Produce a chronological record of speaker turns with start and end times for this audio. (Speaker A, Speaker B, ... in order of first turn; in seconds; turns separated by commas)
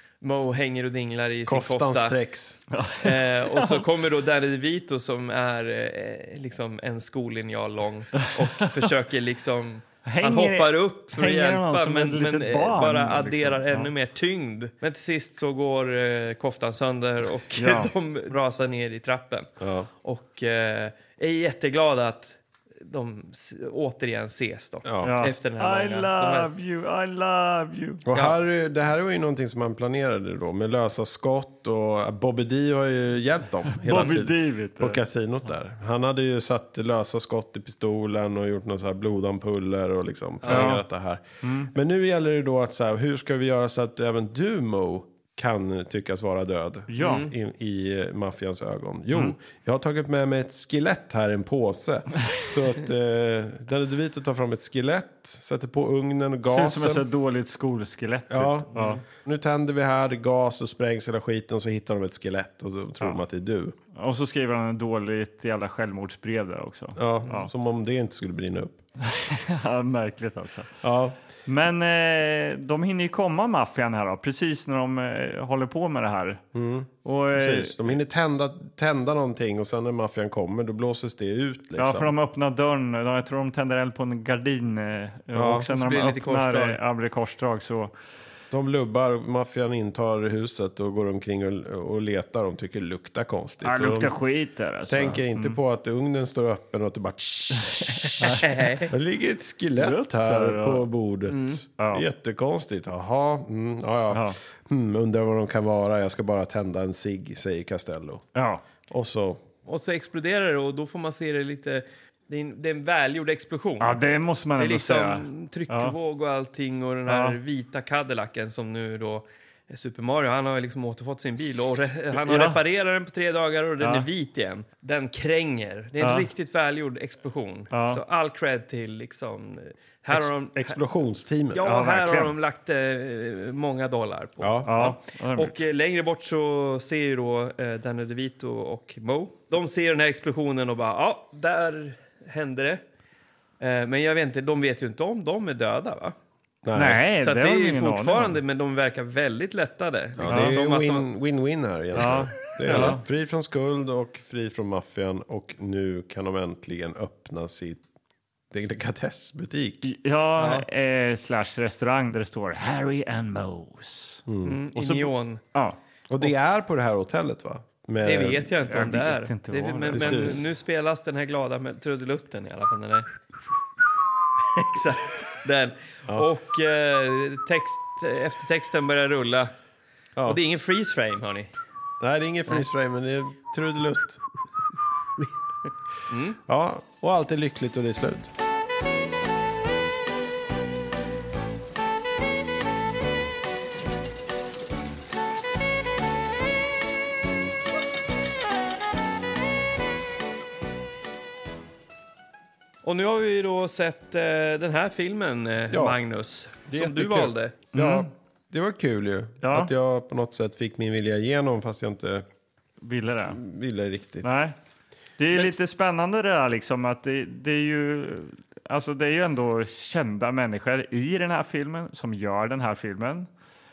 Speaker A: 0.2-2.1, Speaker B: 1.4-2.6, Speaker C: 2.7-3.8, Speaker A: 3.0-19.5, Speaker C: 8.2-8.8, Speaker C: 10.0-13.9, Speaker C: 17.6-17.9, Speaker B: 19.6-19.9, Speaker A: 20.0-26.5, Speaker B: 24.8-25.1, Speaker C: 25.0-28.1, Speaker B: 28.1-57.0, Speaker C: 33.7-35.0, Speaker A: 40.4-40.7, Speaker C: 40.5-40.8, Speaker C: 41.4-41.7, Speaker C: 46.9-47.3, Speaker A: 47.0-47.3, Speaker C: 56.5-59.0, Speaker B: 58.3-63.7, Speaker C: 63.9-67.5, Speaker B: 67.0-68.8, Speaker C: 69.0-70.7, Speaker B: 70.8-71.2, Speaker C: 71.5-76.4, Speaker B: 76.5-82.1, Speaker C: 77.0-78.0, Speaker C: 81.8-87.9, Speaker B: 85.3-85.7, Speaker A: 85.7-86.8, Speaker B: 88.5-94.2, Speaker C: 93.6-95.6, Speaker B: 94.9-108.2, Speaker C: 98.0-98.5, Speaker A: 98.3-98.9, Speaker C: 99.8-100.8, Speaker A: 101.3-101.6, Speaker C: 101.8-102.0, Speaker C: 104.1-104.4, Speaker C: 108.3-108.6, Speaker B: 108.9-109.4, Speaker A: 109.7-114.0, Speaker C: 113.8-116.0, Speaker A: 114.6-130.8, Speaker C: 117.1-117.4, Speaker C: 122.1-122.6, Speaker C: 123.8-124.1, Speaker C: 126.0-126.3, Speaker C: 127.7-128.0, Speaker B: 130.1-131.7, Speaker A: 131.5-142.8, Speaker C: 131.6-132.3, Speaker B: 134.4-134.8, Speaker C: 134.7-135.6, Speaker A: 143.6-146.1, Speaker B: 146.6-147.0, Speaker C: 146.7-148.4, Speaker A: 147.2-151.1, Speaker B: 150.2-157.8, Speaker C: 150.3-150.6, Speaker A: 151.9-153.0, Speaker C: 152.0-153.0, Speaker B: 158.5-159.9, Speaker C: 159.8-166.3, Speaker A: 160.4-160.7, Speaker B: 164.3-164.6, Speaker A: 164.4-165.4, Speaker B: 166.1-168.5, Speaker A: 168.0-173.1, Speaker C: 168.7-170.4, Speaker B: 169.9-170.4, Speaker A: 174.5-179.5, Speaker A: 180.2-181.5, Speaker B: 182.0-184.2, Speaker A: 186.1-186.4, Speaker B: 186.4-188.3, Speaker A: 202.8-207.6, Speaker B: 205.7-206.0, Speaker B: 206.7-212.2, Speaker C: 207.7-208.1, Speaker C: 209.4-209.7, Speaker C: 212.8-213.4, Speaker B: 213.3-214.3, Speaker C: 214.2-214.5, Speaker C: 215.2-223.3